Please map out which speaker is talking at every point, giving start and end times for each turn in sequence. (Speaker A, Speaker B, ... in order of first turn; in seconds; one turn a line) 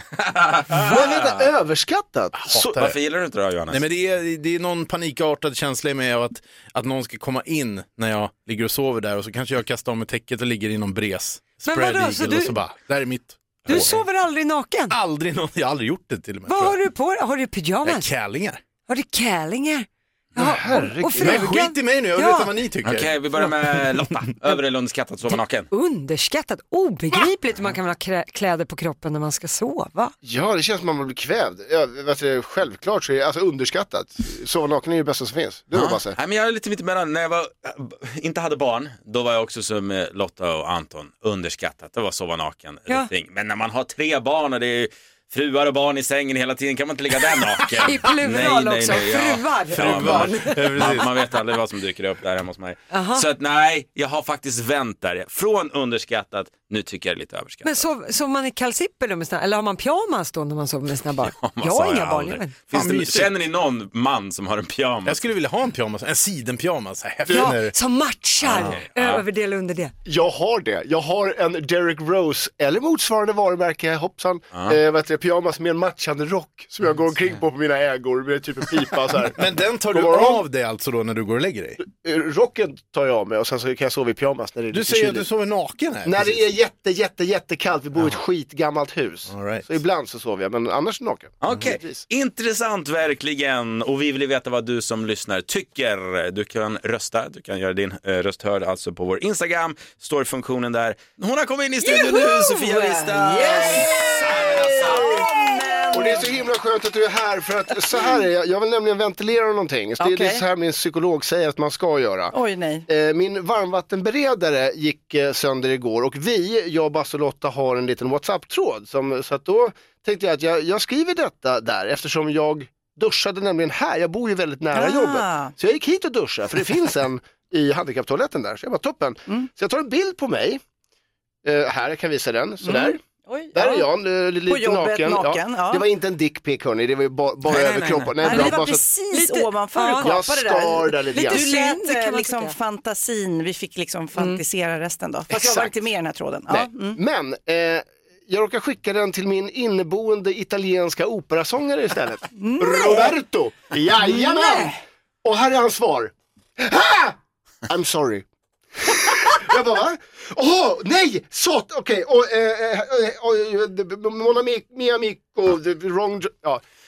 Speaker A: 0.2-1.1
Speaker B: 0.8-2.3
Speaker C: 2.3-3.0
Speaker A: 2.5-3.8
Speaker C: 3.7-14.0
Speaker D: 11.7-12.6
Speaker D: 13.7-15.0
Speaker C: 14.9-16.8
Speaker D: 16.5-18.1
Speaker C: 17.8-18.6
Speaker D: 18.9-22.5
Speaker B: 20.4-21.5
Speaker C: 20.7-23.1
Speaker A: 22.8-25.7
Speaker D: 25.7-30.1
Speaker B: 30.2-36.1
Speaker A: 35.7-57.8
Speaker D: 47.8-50.8
Speaker C: 49.7-51.1
Speaker D: 52.9-53.2
Speaker D: 57.6-62.5
Speaker A: 61.3-65.3
Speaker C: 62.7-63.3
Speaker C: 65.0-67.7
Speaker D: 67.3-69.9
Speaker A: 68.4-69.2
Speaker B: 70.0-80.4
Speaker C: 79.3-81.8
Speaker B: 81.8-85.2
Speaker C: 84.7-86.4
Speaker B: 86.0-92.0
Speaker C: 89.3-89.7
Speaker A: 91.4-106.3
Speaker E: 101.9-104.1
Speaker D: 103.2-104.2
Speaker B: 105.9-112.3
Speaker E: 110.0-110.4
Speaker E: 112.3-112.8
Speaker B: 112.9-130.6
Speaker E: 124.7-125.5
Speaker B: 131.4-133.0
Speaker E: 132.6-133.9
Speaker B: 133.5-138.8
Speaker E: 134.5-135.8
Speaker A: 137.6-138.1
Speaker E: 138.2-147.0
Speaker D: 138.3-138.5
Speaker D: 139.1-140.2
Speaker B: 140.0-141.5
Speaker D: 141.1-142.5
Speaker B: 145.3-145.7
Speaker B: 146.5-166.6
Speaker E: 152.4-153.1
Speaker E: 154.2-154.7